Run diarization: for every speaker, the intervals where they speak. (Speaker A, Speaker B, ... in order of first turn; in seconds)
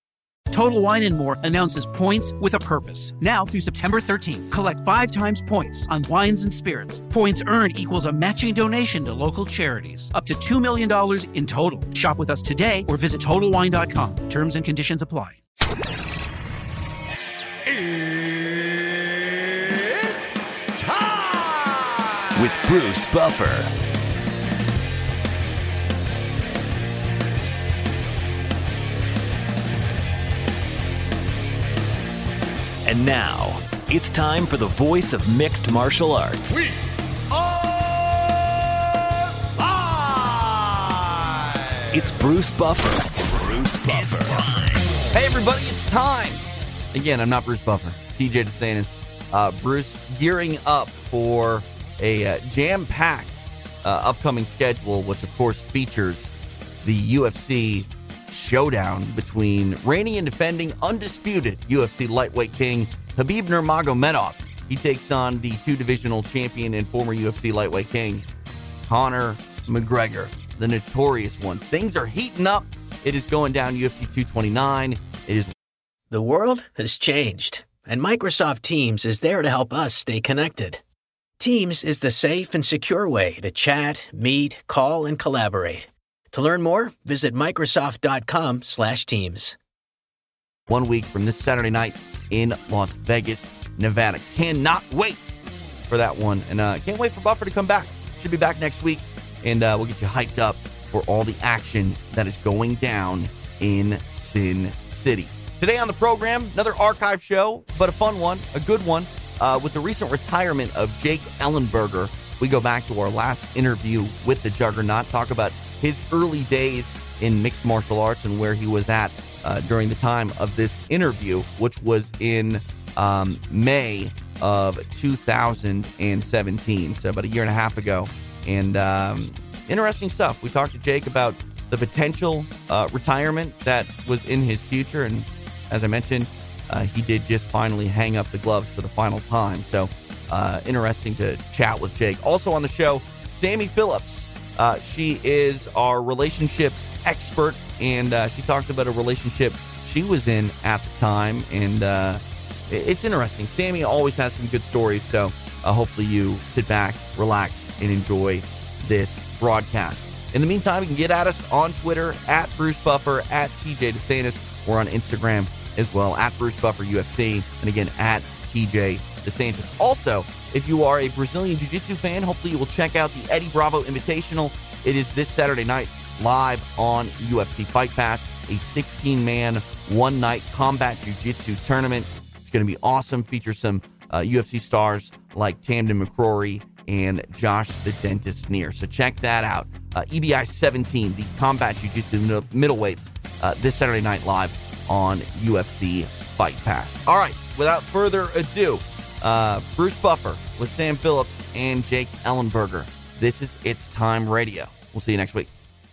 Speaker A: 0.5-15.4
Speaker B: 17.7-20.2, 20.9-22.2, 37.4-38.9, 39.4-41.6
Speaker C: 22.3-23.7, 32.9-36.7, 41.9-44.8
Speaker D: 45.1-56.3, 56.8-68.2, 68.9-75.5, 90.7-95.4, 95.9-205.5
Speaker E: 76.1-80.8, 81.4-89.6